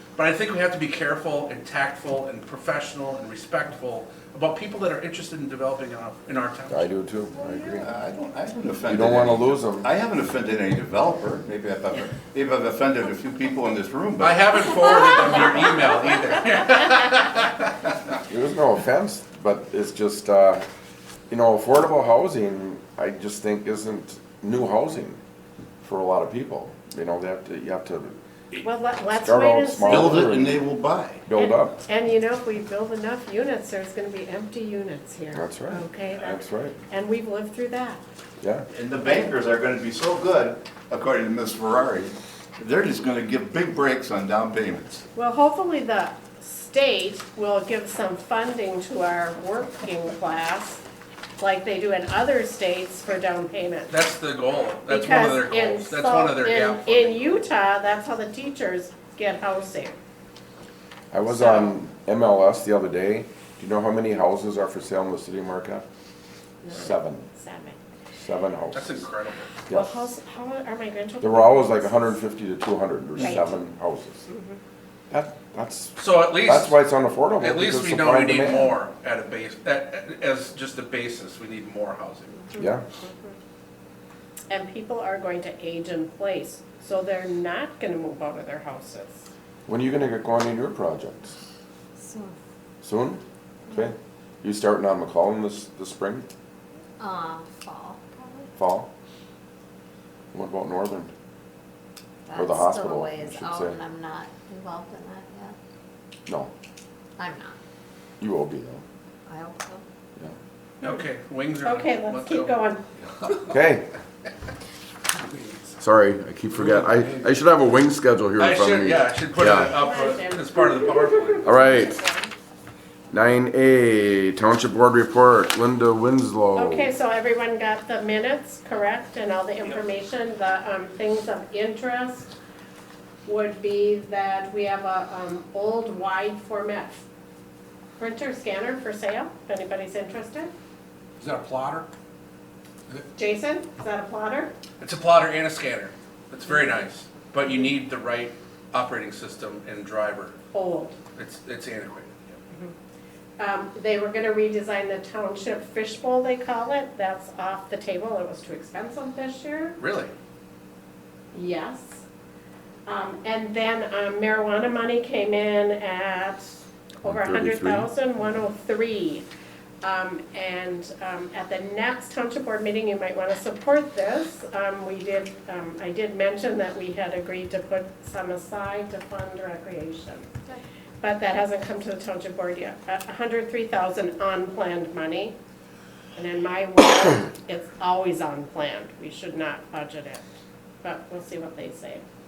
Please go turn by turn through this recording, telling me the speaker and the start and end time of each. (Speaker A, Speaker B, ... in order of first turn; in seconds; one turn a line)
Speaker A: 0.2-6.9
Speaker B: 6.7-7.9
Speaker C: 7.7-14.5
Speaker B: 8.9-9.9
Speaker A: 14.2-17.7
Speaker B: 18.3-20.6
Speaker B: 21.3-25.2
Speaker B: 25.8-28.2
Speaker D: 28.6-30.4
Speaker B: 29.2-30.6
Speaker C: 29.8-31.3
Speaker B: 31.3-31.8
Speaker D: 31.3-38.0
Speaker B: 35.3-36.8
Speaker B: 38.4-38.7
Speaker C: 38.7-45.0
Speaker D: 45.2-50.8
Speaker D: 51.4-53.9
Speaker A: 53.9-57.5
Speaker D: 54.9-60.0
Speaker B: 61.1-65.8
Speaker D: 61.3-61.6
Speaker D: 66.6-67.8
Speaker B: 66.7-67.3
Speaker B: 68.2-69.0
Speaker A: 68.8-69.5
Speaker D: 69.7-72.0
Speaker B: 71.2-74.3
Speaker D: 74.3-74.6
Speaker B: 75.1-78.8
Speaker A: 76.0-76.8
Speaker A: 77.4-82.5
Speaker D: 82.5-83.4
Speaker B: 82.6-82.8
Speaker D: 84.5-89.2
Speaker B: 89.7-91.3
Speaker E: 92.0-92.3
Speaker B: 92.8-96.3
Speaker E: 97.0-98.5
Speaker B: 98.6-98.9
Speaker B: 100.3-101.1
Speaker E: 102.3-105.6
Speaker B: 102.3-103.8
Speaker E: 107.2-107.6
Speaker B: 108.2-108.8
Speaker E: 109.3-109.8
Speaker A: 110.8-112.5
Speaker D: 111.7-112.8
Speaker B: 113.5-113.9
Speaker A: 115.2-115.8
Speaker B: 115.8-119.8
Speaker A: 116.5-117.3
Speaker A: 118.4-121.6
Speaker D: 119.8-120.4
Speaker D: 121.2-122.3
Speaker B: 121.4-122.0
Speaker B: 123.1-126.9
Speaker D: 126.6-132.3
Speaker D: 133.2-137.0
Speaker D: 138.0-140.5
Speaker A: 141.2-141.9
Speaker D: 143.2-144.5
Speaker A: 144.8-150.4
Speaker D: 150.5-151.0
Speaker A: 151.2-152.4
Speaker D: 153.4-159.8
Speaker A: 159.8-160.1
Speaker D: 161.3-162.0
Speaker D: 162.9-166.5
Speaker B: 167.0-167.9
Speaker D: 167.1-169.3
Speaker D: 169.8-180.3
Speaker D: 181.0-185.3
Speaker D: 186.2-190.2
Speaker D: 190.8-192.0